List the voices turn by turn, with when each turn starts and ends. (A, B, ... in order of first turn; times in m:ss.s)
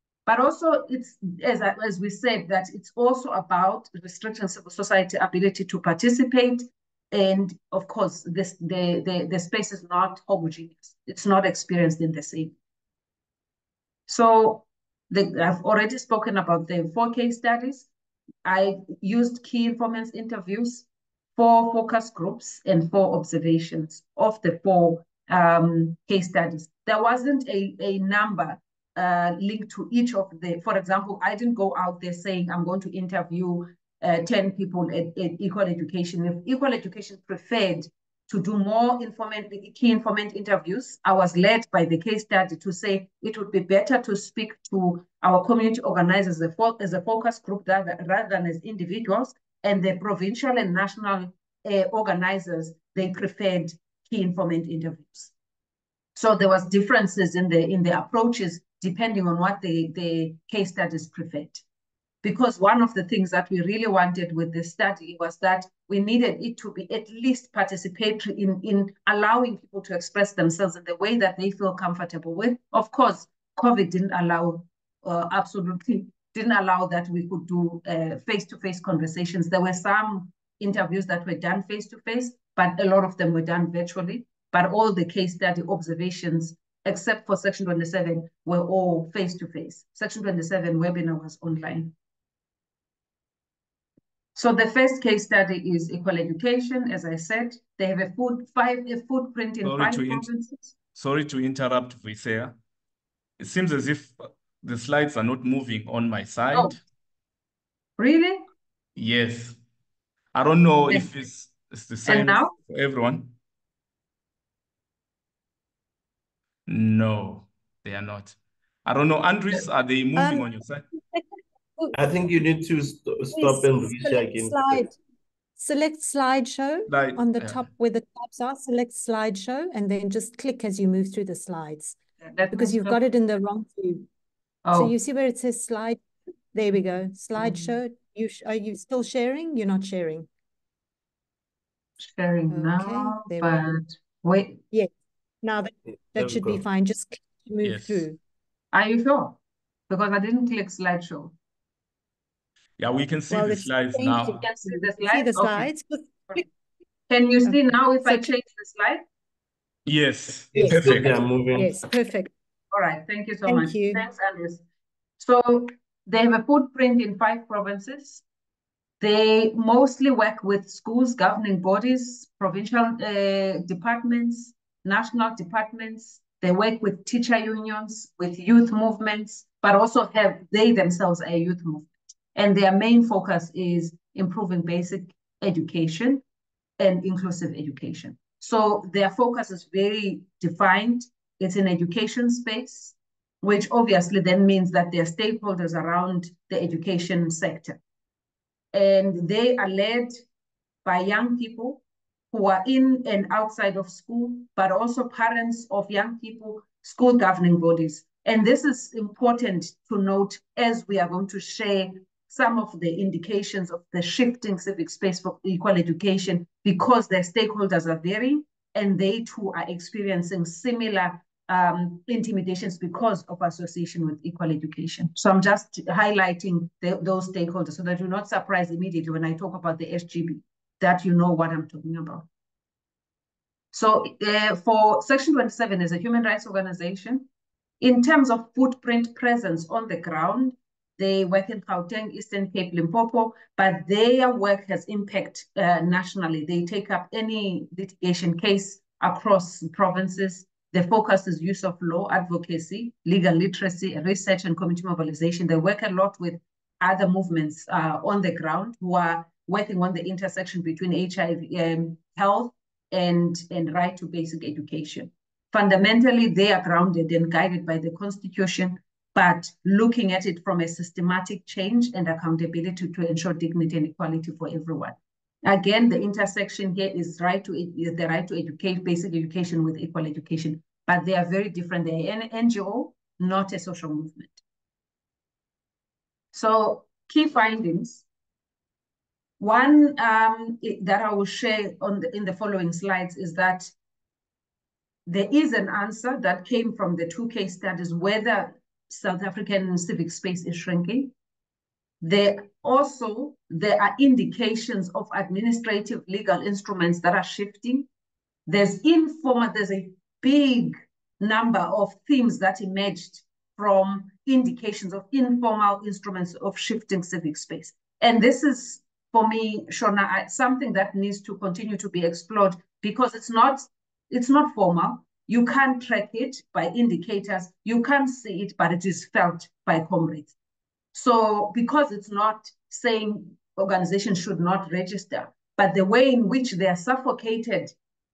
0:00.3-0:12.6 A
0:14.1-0:17.9 A
0:18.4-0:55.3 A
0:56.2-1:01.6 A
1:02.2-1:31.9 A
1:34.4-1:40.8 A
1:39.6-1:40.3 B
1:40.9-1:42.6 B
1:43.4-1:46.8 B
1:46.5-1:46.8 A
1:48.0-1:48.4 A
1:49.0-1:49.6 B
1:50.3-1:53.4 B
1:52.1-1:52.5 A
1:56.7-2:00.8 B
2:00.2-2:00.5 C
2:01.9-2:04.9 D
2:03.3-2:05.0 C
2:05.6-2:12.0 C
2:06.9-2:07.7 B
2:12.2-2:13.0 A
2:12.5-2:14.1 C
2:14.6-2:14.9 A
2:14.7-2:16.0 C
2:16.5-2:20.3 C
2:17.4-2:17.8 A
2:22.0-2:24.6 A
2:22.5-2:23.6 C
2:25.4-2:28.2 C
2:25.9-2:26.6 D
2:27.6-2:28.1 B
2:28.7-2:31.4 A
2:32.8-2:34.4 B
2:33.3-2:36.4 C
2:34.4-2:35.7 A
2:37.1-2:39.0 A
2:37.5-2:38.3 C
2:39.9-2:41.2 B
2:40.5-2:41.8 D
2:40.6-2:41.0 C
2:41.6-2:42.3 C
2:42.7-2:44.6 A
2:43.5-2:44.1 C
2:45.2-2:48.2 A
2:49.0-3:06.2 A
3:06.8-3:17.8 A
3:18.7-3:20.2 A
3:20.8-3:52.3 A
3:53.7-3:57.3 A
3:57.8-4:44.4 A
4:46.3-4:48.0 A
4:49.4-4:53.7 A
4:55.1-5:01.1 A
5:02.0-5:07.9 A
5:08.5-5:30.3 A
5:30.9-5:37.7 A